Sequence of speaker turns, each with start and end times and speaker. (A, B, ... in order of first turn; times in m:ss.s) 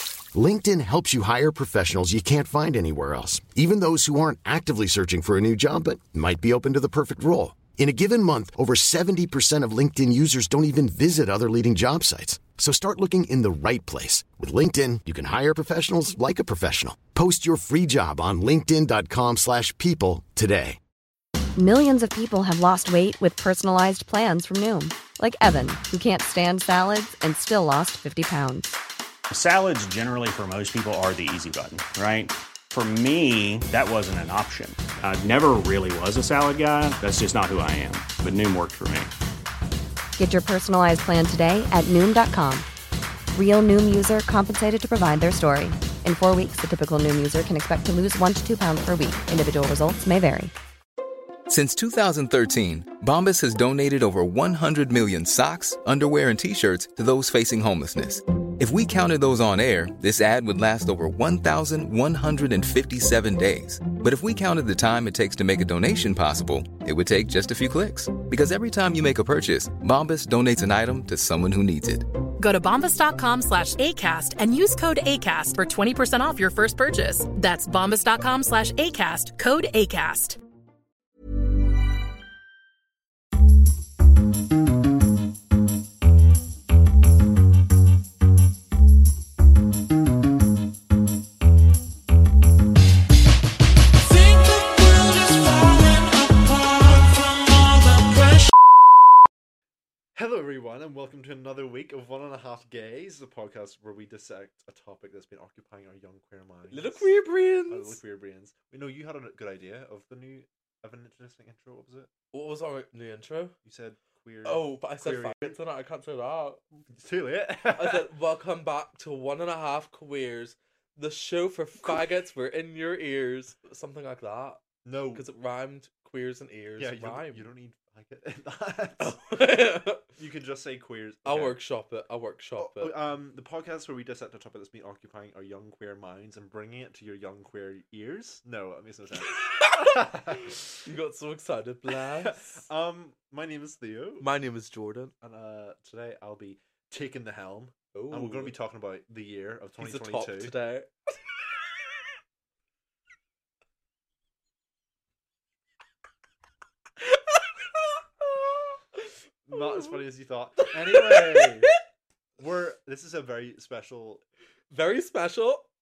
0:00.3-0:20.8 A
0:21.6-0:28.7 B
0:29.3-0:39.1 C
0:40.2-0:42.7 B
0:43.3-0:50.5 B
0:51.5-1:12.1 D
1:12.4-1:20.4 E
1:40.1-1:47.1 F
1:46.7-1:48.0 G
1:47.7-1:52.1 F
1:52.3-1:53.5 G
1:53.6-1:55.6 F
1:54.4-1:56.6 G
1:56.9-1:58.1 F
1:57.7-2:07.5 G
2:04.8-2:05.2 F
2:06.8-2:09.2 F
2:09.0-2:10.1 G
2:10.2-2:11.6 F
2:11.2-2:12.9 G
2:12.6-2:20.6 F
2:19.4-2:22.6 G
2:21.9-2:24.3 F
2:24.2-2:25.1 G
2:25.2-2:30.5 F
2:27.9-2:28.6 G
2:29.8-2:31.1 G
2:37.1-2:37.4 G
2:38.2-2:38.7 G
2:39.4-2:41.7 F
2:40.7-2:41.6 G
2:42.4-2:44.2 F
2:44.7-2:45.7 G